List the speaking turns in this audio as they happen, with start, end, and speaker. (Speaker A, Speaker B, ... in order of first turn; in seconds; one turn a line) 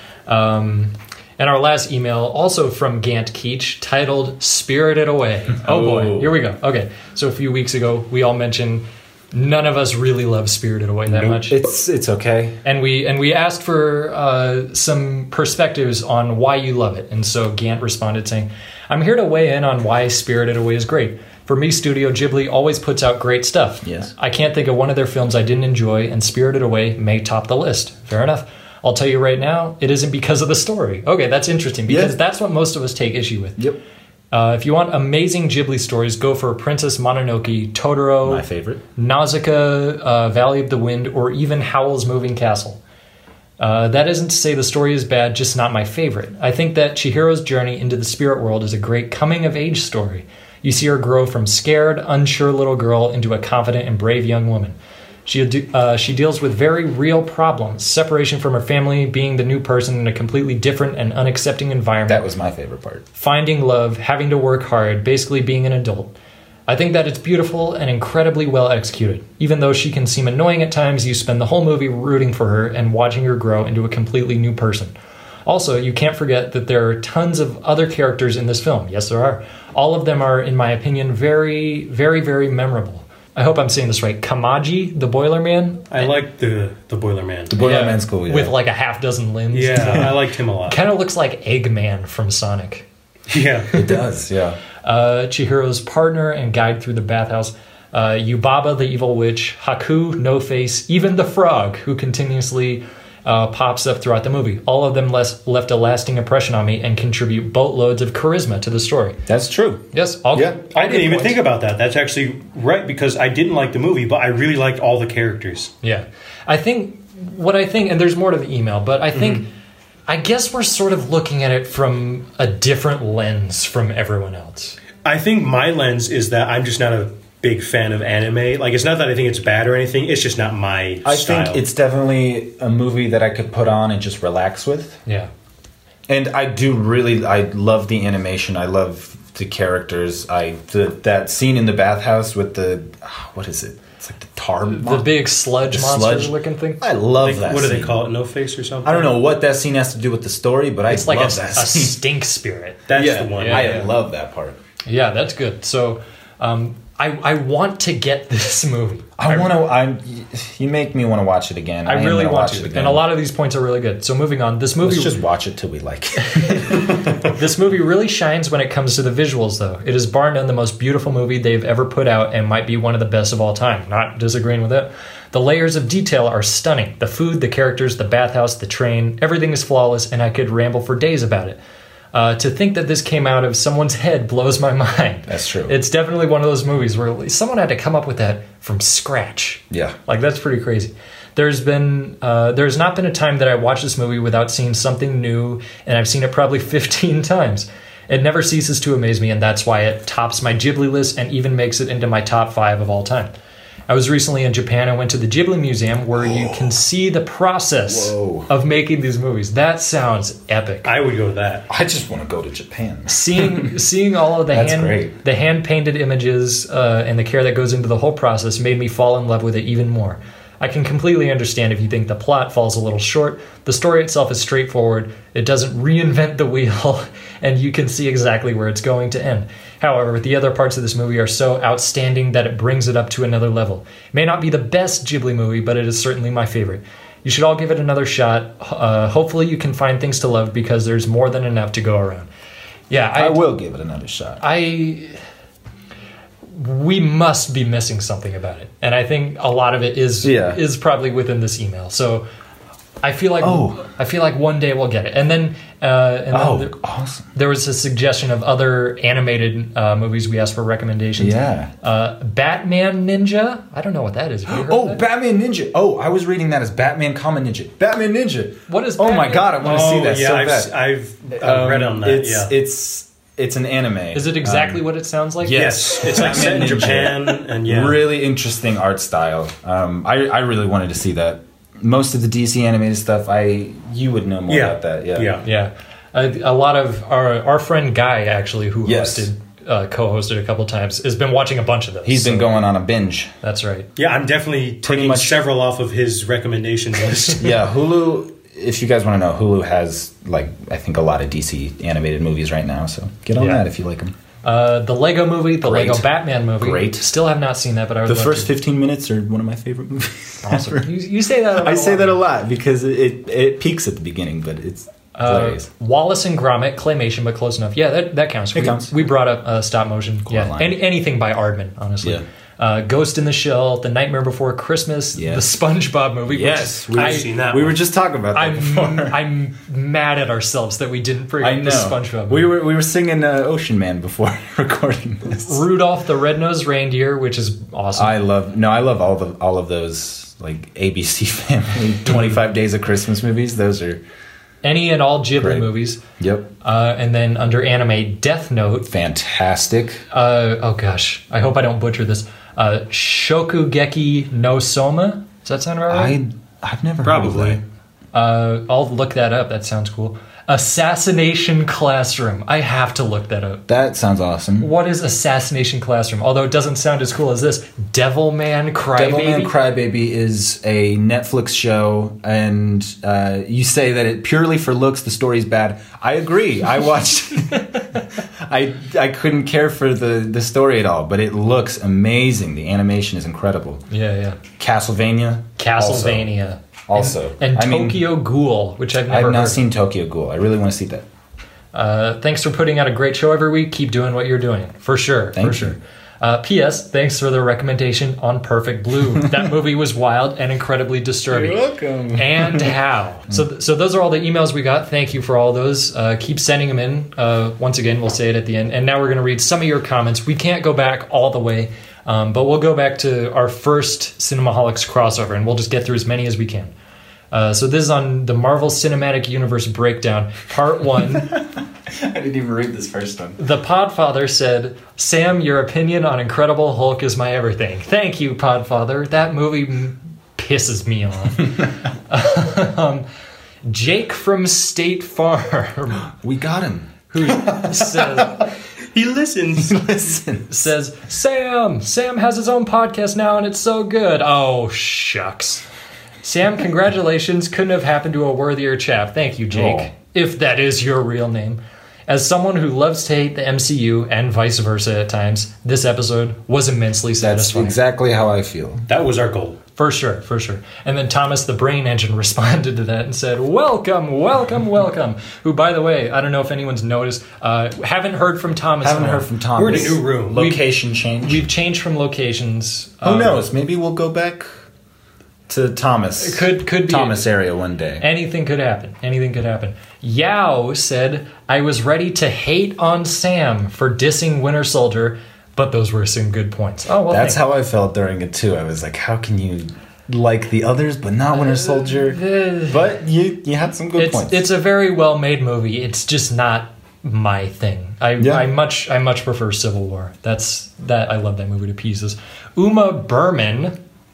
Speaker A: 0.3-11.6
Speaker B: 5.6-6.3
Speaker B: 11.1-12.6
Speaker A: 12.6-33.6
Speaker B: 23.8-24.1
Speaker B: 31.9-32.1
Speaker A: 34.3-38.4
Speaker B: 38.2-38.8
Speaker A: 39.0-42.8
Speaker A: 43.6-54.7
Speaker A: 55.2-62.2
Speaker B: 62.1-63.0
Speaker A: 63.1-66.1
Speaker A: 66.7-74.9
Speaker A: 75.5-86.1
Speaker C: 85.9-87.6
Speaker B: 87.5-88.5
Speaker A: 87.6-92.8
Speaker C: 89.5-90.8
Speaker C: 93.3-93.8
Speaker B: 93.7-94.6
Speaker A: 94.8-109.2
Speaker B: 109.3-110.6
Speaker A: 109.9-111.4
Speaker C: 110.7-115.7
Speaker A: 115.8-119.5
Speaker C: 119.1-119.4
Speaker A: 120.1-124.8
Speaker C: 125.0-131.6
Speaker B: 131.0-135.0
Speaker B: 136.1-145.1
Speaker A: 144.7-146.8
Speaker B: 145.7-148.0
Speaker C: 147.2-149.2
Speaker B: 148.8-152.0
Speaker A: 150.9-153.9
Speaker C: 152.9-153.8
Speaker B: 152.9-154.6
Speaker A: 154.9-159.5
Speaker B: 159.2-163.1
Speaker A: 161.8-165.2
Speaker B: 164.8-167.1
Speaker A: 166.3-181.6
Speaker A: 182.1-203.3
Speaker B: 185.3-185.8
Speaker B: 189.7-189.9
Speaker A: 203.9-210.9
Speaker B: 206.2-206.8
Speaker B: 207.9-208.5
Speaker C: 210.8-211.6
Speaker B: 211.7-213.8
Speaker A: 213.1-242.3
Speaker B: 214.5-215.1
Speaker A: 242.9-243.4
Speaker B: 243.1-244.4
Speaker A: 244.4-245.2
Speaker A: 246.5-252.2
Speaker B: 250.2-250.6
Speaker A: 253.0-256.8
Speaker B: 253.4-253.8
Speaker B: 256.3-257.3
Speaker A: 257.3-265.0
Speaker B: 261.2-261.7
Speaker B: 264.5-270.7
Speaker A: 268.7-269.9
Speaker C: 269.6-272.5
Speaker B: 271.4-274.8
Speaker A: 274.1-276.9
Speaker B: 275.4-285.4
Speaker C: 275.5-278.0
Speaker C: 284.5-285.4
Speaker A: 285.4-292.5
Speaker B: 288.8-289.3
Speaker B: 292.0-293.3
Speaker A: 293.4-293.9
Speaker C: 294.0-297.5
Speaker B: 294.8-295.4
Speaker B: 297.3-304.1
Speaker A: 303.4-303.6
Speaker A: 304.4-308.5
Speaker B: 305.6-307.1
Speaker B: 308.1-310.9
Speaker A: 310.4-312.2
Speaker B: 311.5-315.7
Speaker A: 315.1-327.3
Speaker B: 318.5-318.9
Speaker B: 320.2-320.8
Speaker B: 325.1-325.4
Speaker B: 326.3-329.2
Speaker C: 326.9-327.8
Speaker A: 328.3-332.5
Speaker B: 331.4-335.6
Speaker A: 335.4-338.1
Speaker B: 337.9-344.0
Speaker A: 344.6-346.0
Speaker B: 345.4-345.7
Speaker B: 346.2-346.5
Speaker A: 346.6-348.9
Speaker B: 348.9-350.0
Speaker A: 350.1-356.2
Speaker B: 355.9-357.6
Speaker C: 357.0-357.6
Speaker A: 358.1-363.6
Speaker B: 363.7-364.7
Speaker A: 364.6-369.5
Speaker B: 368.9-377.8
Speaker A: 377.6-377.9
Speaker B: 378.4-383.8
Speaker A: 383.9-384.4
Speaker B: 384.6-386.3
Speaker A: 385.6-389.6
Speaker B: 386.9-388.0
Speaker B: 389.1-391.0
Speaker A: 391.7-401.6
Speaker B: 395.3-395.8
Speaker B: 401.3-402.7
Speaker A: 402.1-416.7
Speaker A: 417.3-421.4
Speaker B: 421.2-423.4
Speaker A: 423.4-433.0
Speaker A: 433.6-436.1
Speaker B: 436.1-437.8
Speaker A: 437.1-438.5
Speaker C: 438.9-440.2
Speaker B: 439.6-440.5
Speaker A: 440.5-445.6
Speaker A: 446.2-457.8
Speaker B: 449.5-449.9
Speaker B: 457.2-458.8
Speaker C: 458.9-459.6
Speaker A: 459.8-470.6
Speaker B: 468.8-471.5
Speaker C: 469.6-470.5
Speaker A: 471.2-473.4
Speaker B: 473.0-474.4
Speaker B: 475.5-478.0
Speaker A: 476.2-477.2
Speaker A: 478.0-487.4
Speaker B: 487.1-494.4
Speaker A: 491.4-492.9
Speaker A: 493.9-503.8
Speaker B: 498.2-498.4